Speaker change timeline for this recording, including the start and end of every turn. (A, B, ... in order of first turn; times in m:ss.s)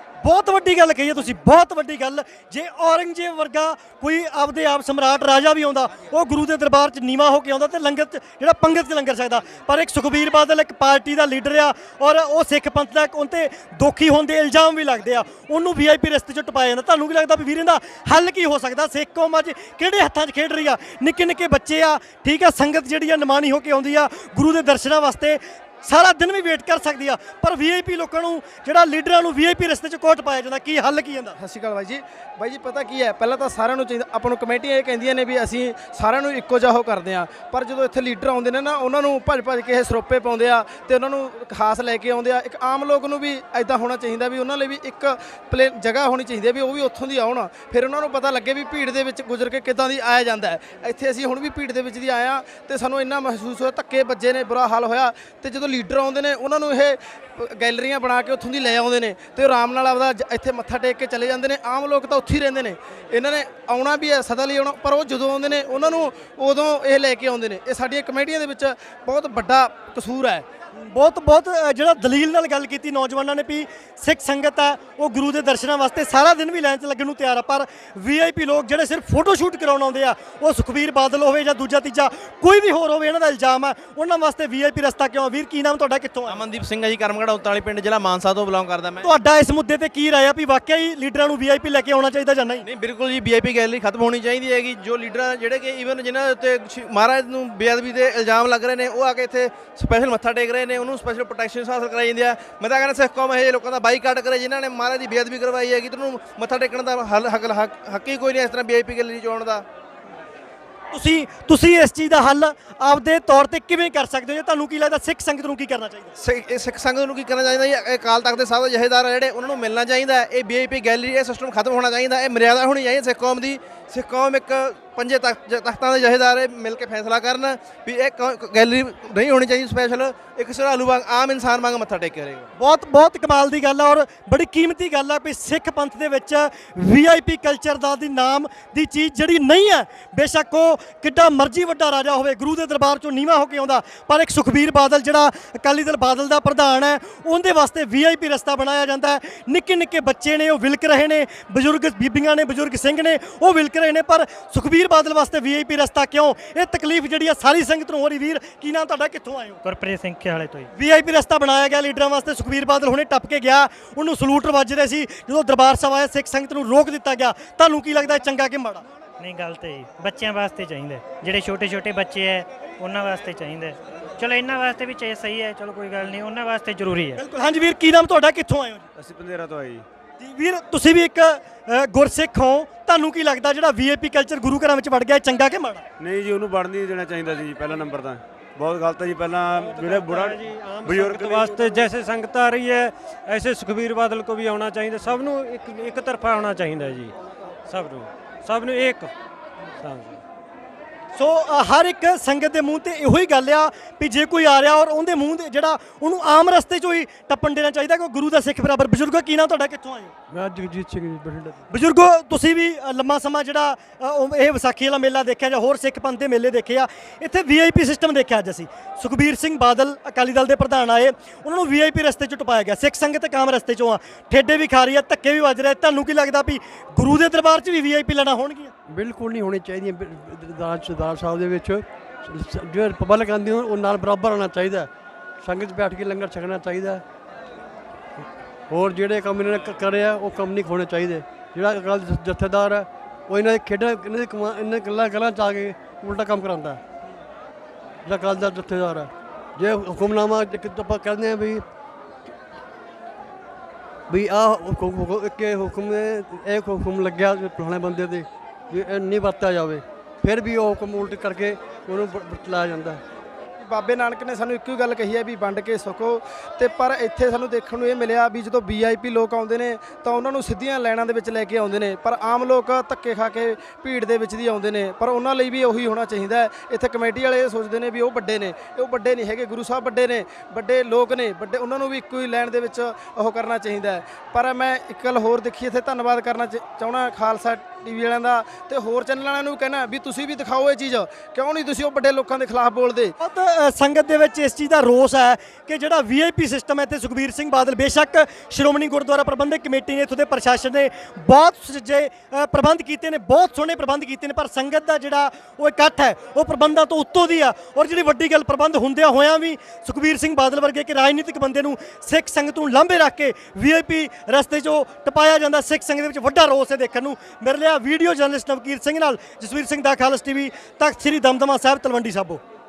0:00.2-0:31.4 A
0:31.4-1:10.4 B
1:10.8-1:26.4 A
1:26.3-1:29.1 C
1:29.0-1:32.6 A
1:32.6-1:49.7 C
1:50.9-1:56.1 A
1:56.2-2:12.5 C
2:12.6-2:39.6 A
2:39.6-2:40.7 D
2:40.7-2:48.8 A
2:49.2-2:57.2 D
2:57.2-2:58.9 A
2:59.0-2:59.8 E
3:00.2-3:05.8 A
3:06.0-3:11.8 E
3:09.5-3:17.1 F
3:17.7-3:19.1 F
3:19.8-3:20.2 F
3:21.1-3:30.1 A
3:30.3-3:31.6 G
3:31.7-3:48.7 A
3:48.9-3:54.9 G
3:55.4-3:57.0 G
3:58.7-4:06.8 G
4:08.0-4:11.6 G
4:14.1-4:23.0 G
4:23.6-4:53.1 B
4:53.2-5:22.4 A